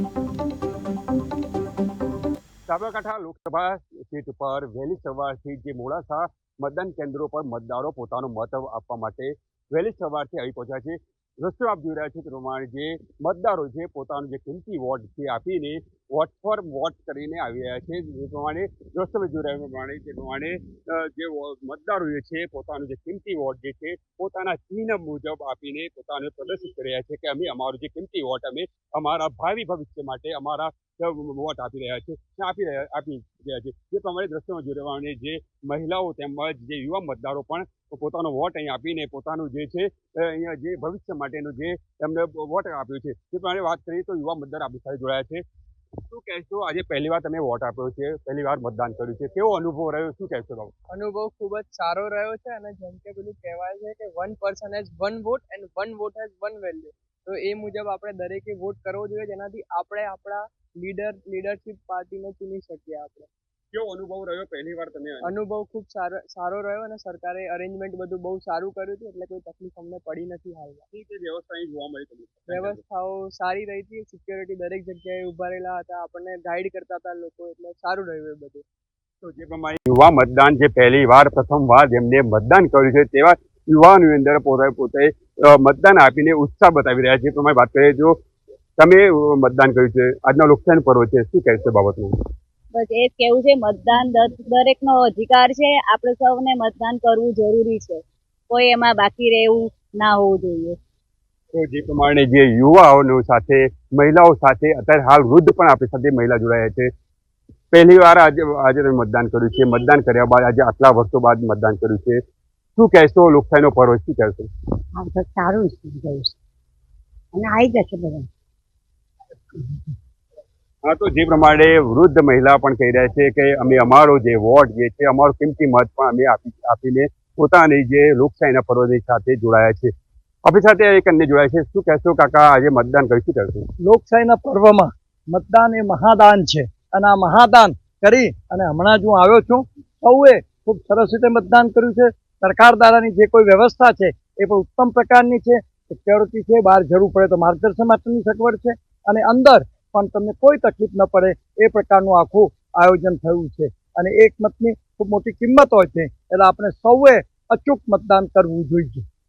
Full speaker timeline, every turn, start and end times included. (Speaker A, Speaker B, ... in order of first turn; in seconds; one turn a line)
Speaker A: 2.7-45.4
Speaker A: 46.1-50.7
Speaker B: 50.9-63.3
Speaker A: 63.7-65.3
Speaker B: 65.2-70.8
Speaker A: 70.9-72.8
Speaker B: 72.5-78.6
Speaker A: 79.2-88.2
Speaker A: 88.8-92.1
Speaker C: 92.7-100.8
Speaker A: 101.5-106.9
Speaker A: 107.7-112.2
Speaker A: 112.8-114.5
Speaker D: 115.0-116.3
Speaker D: 117.4-118.3
Speaker A: 120.8-129.9
Speaker A: 130.5-133.7
Speaker E: 133.8-159.0